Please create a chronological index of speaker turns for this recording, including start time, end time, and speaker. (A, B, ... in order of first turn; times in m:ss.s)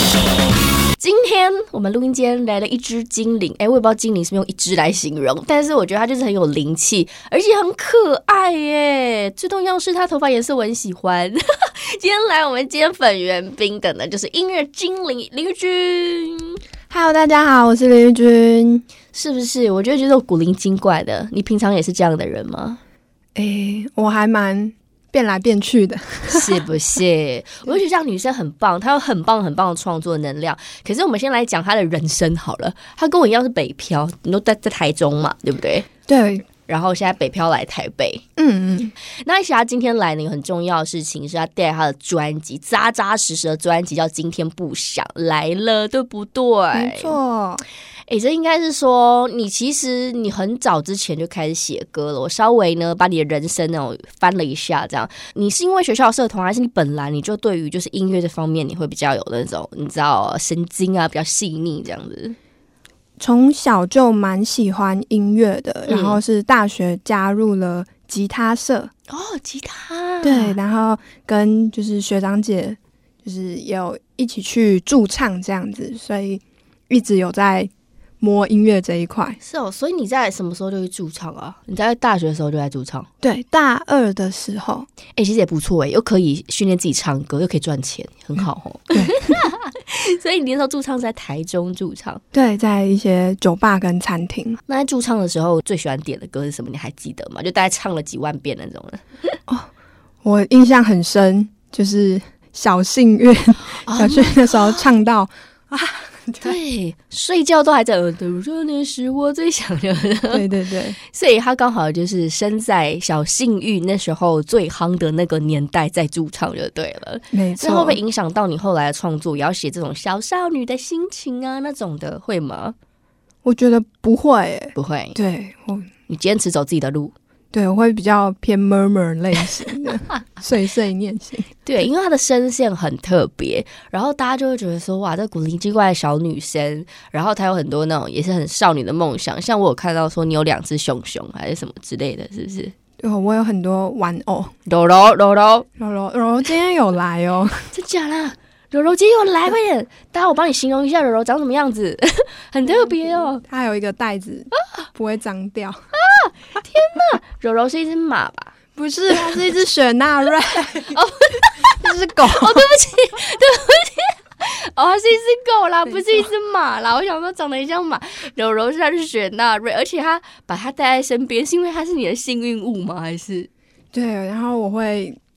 0:01.0-0:16.6 A
0:16.9-0:18.9 B
0:19.1-0:22.8 A
0:23.4-0:26.7 B
0:26.3-0:35.9 A
0:36.1-0:36.5 B
0:36.7-0:38.2 A
0:38.4-0:38.9 B
0:39.2-0:47.2 A
0:46.7-0:47.6 B
0:48.1-1:02.4 A
1:03.2-1:08.9 B
1:05.9-1:06.2 A
1:09.1-1:10.6 A
1:10.2-1:17.7 B
1:18.2-1:19.4 B
1:19.4-1:23.1 A
1:23.2-1:24.9 B
1:25.2-1:32.2 A
1:28.9-1:29.2 B
1:32.3-1:34.6 B
1:34.7-1:39.4 A
1:40.2-1:46.6 B
1:43.9-1:44.9 A
1:46.4-2:02.8 A
1:50.3-1:51.0 B
1:57.3-1:58.0 B
2:03.4-2:05.9 B
2:04.8-2:05.2 A
2:06.1-2:07.1 A
2:07.5-2:11.5 B
2:11.7-2:22.7 A
2:23.0-2:24.5 B
2:24.7-2:25.7 A
2:25.8-2:27.7 B
2:27.7-2:33.4 A
2:32.7-2:35.8 B
2:36.0-2:38.5 A
2:38.8-2:41.0 B
2:40.9-2:53.5 A
2:41.8-2:42.7 B
2:45.9-2:46.3 B
2:53.9-2:55.2 B